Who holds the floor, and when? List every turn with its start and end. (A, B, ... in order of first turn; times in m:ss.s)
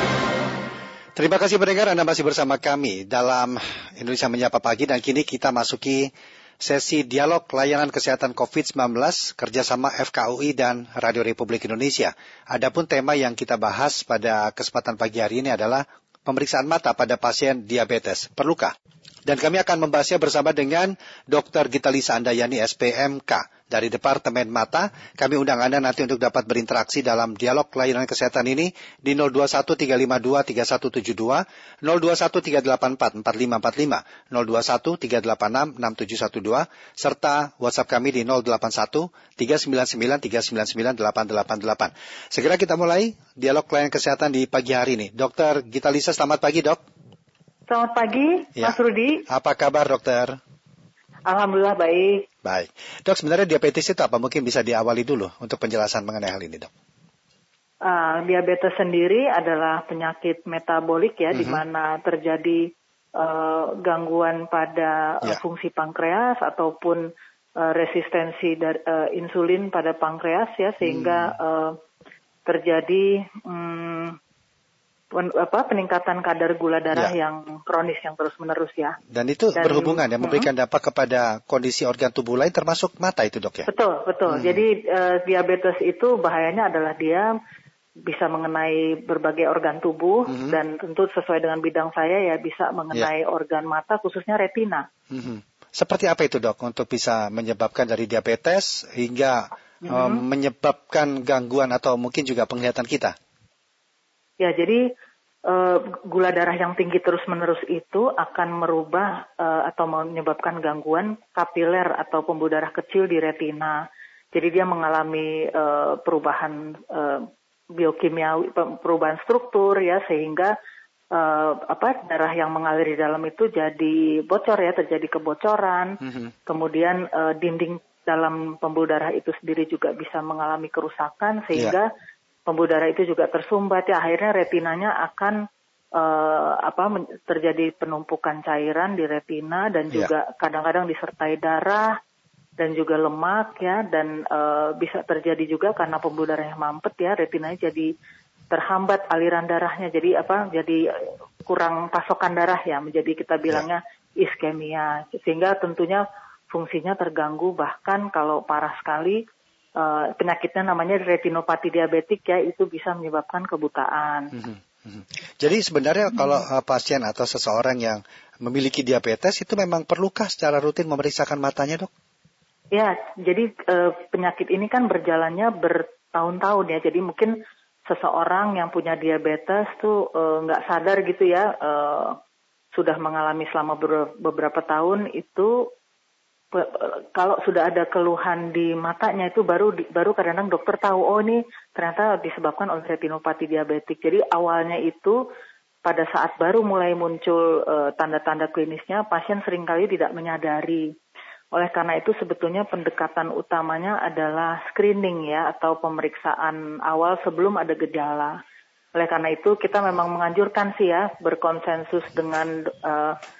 0:01.2-0:06.1 A
0:06.6-0:18.7 A
0:19.3-0:46.8 A
0:47.7-0:49.2 B
0:49.3-0:50.4 A
0:51.3-0:52.3 B
0:52.4-0:56.7 A
0:57.8-1:11.8 B
1:01.3-1:01.6 A
1:10.8-1:11.3 A
1:12.5-1:14.2 B
1:15.1-1:19.0 B
1:19.1-1:23.7 A
1:19.6-1:20.5 B
1:23.7-1:27.3 B
1:24.3-1:24.6 A
1:28.0-1:34.8 B
1:30.3-1:30.6 A
1:35.1-1:43.2 A
1:39.8-1:40.2 B
1:44.4-1:44.8 B
1:45.5-2:00.5 B
2:01.1-2:11.9 B
2:06.0-2:06.3 A
2:12.5-2:15.4 B
2:16.0-2:22.0 B
2:22.6-2:27.9 B
2:28.5-2:30.8 B
2:31.4-2:39.2 B
2:39.8-2:44.3 B
2:44.4-2:51.9 A
2:52.7-2:57.4 B
2:57.9-3:02.2 B
3:02.7-3:05.7 B
3:06.5-3:15.2 B
3:15.8-3:20.9 B
3:21.5-3:28.4 B
3:29.0-3:33.2 B